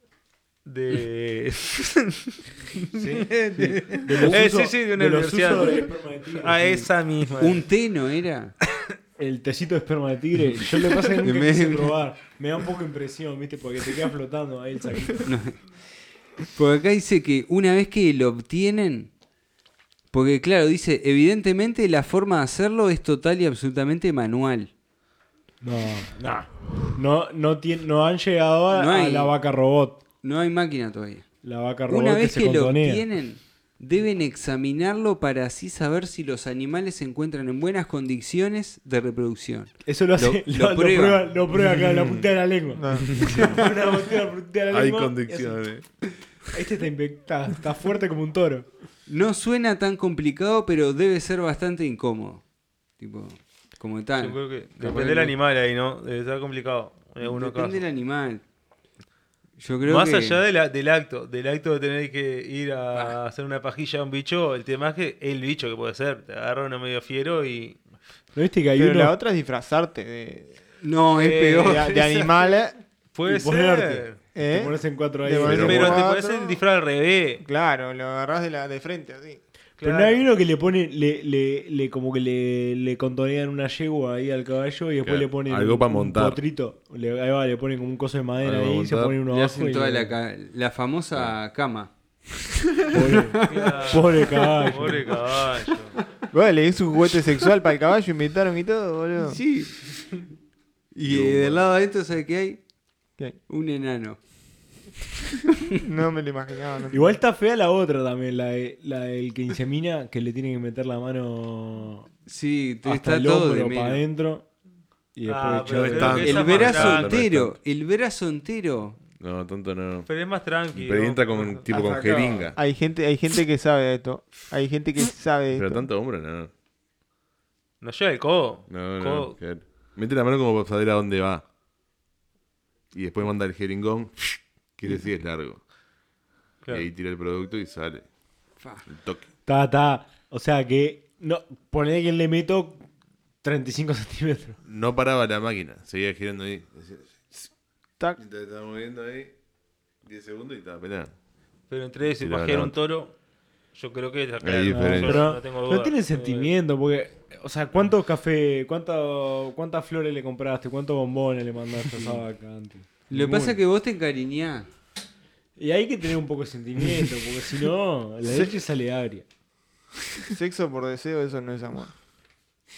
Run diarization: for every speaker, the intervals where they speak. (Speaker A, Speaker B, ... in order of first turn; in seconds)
Speaker A: 0.7-7.6, 54.2-57.8, 59.9-67.8, 71.1-71.8, 73.1-74.2, 75.4-77.4, 79.8-80.2, 93.5-95.9, 115.2-117.2, 120.1-121.6, 127.8-129.3, 151.7-153.1, 153.7-156.5
Speaker B: 2.9-6.9, 9.2-15.3, 25.6-30.0, 31.4-33.0, 39.8-45.6, 46.5-48.7, 68.3-69.1, 73.2-76.0, 79.8-90.1, 92.9-95.2, 106.9-112.1, 112.8-114.5, 115.1-116.4, 139.4-142.8, 143.4-144.6, 154.7-163.6, 165.6-169.2
Speaker C: 7.4-8.5, 11.2-12.0, 15.2-15.6, 16.5-19.1, 20.1-24.7, 28.7-29.3, 30.2-31.2, 31.9-41.2, 49.1-52.4, 53.0-55.3, 57.2-58.4, 59.6-60.4, 70.8-72.3, 89.3-91.9, 92.8-94.9, 99.2-99.8, 100.9-102.6, 103.5-104.2, 112.2-114.0, 116.2-119.0, 138.6-138.9, 163.1-164.7
Speaker D: 42.7-43.1, 68.7-70.6, 71.6-72.8, 74.3-76.6, 77.4-79.4, 96.3-99.4, 105.8-107.2, 121.4-125.9, 170.3-171.9
Speaker E: 43.1-43.4, 44.7-45.9, 75.4-76.0, 85.0-86.4, 88.4-89.2, 101.0-101.8, 115.6-117.5, 119.2-120.1, 120.7-122.6, 125.5-126.5, 128.7-131.4, 132.9-135.6, 136.7-138.0, 138.9-139.3, 144.6-147.5, 148.2-149.3, 150.0-151.1, 152.2-152.7, 154.4-155.3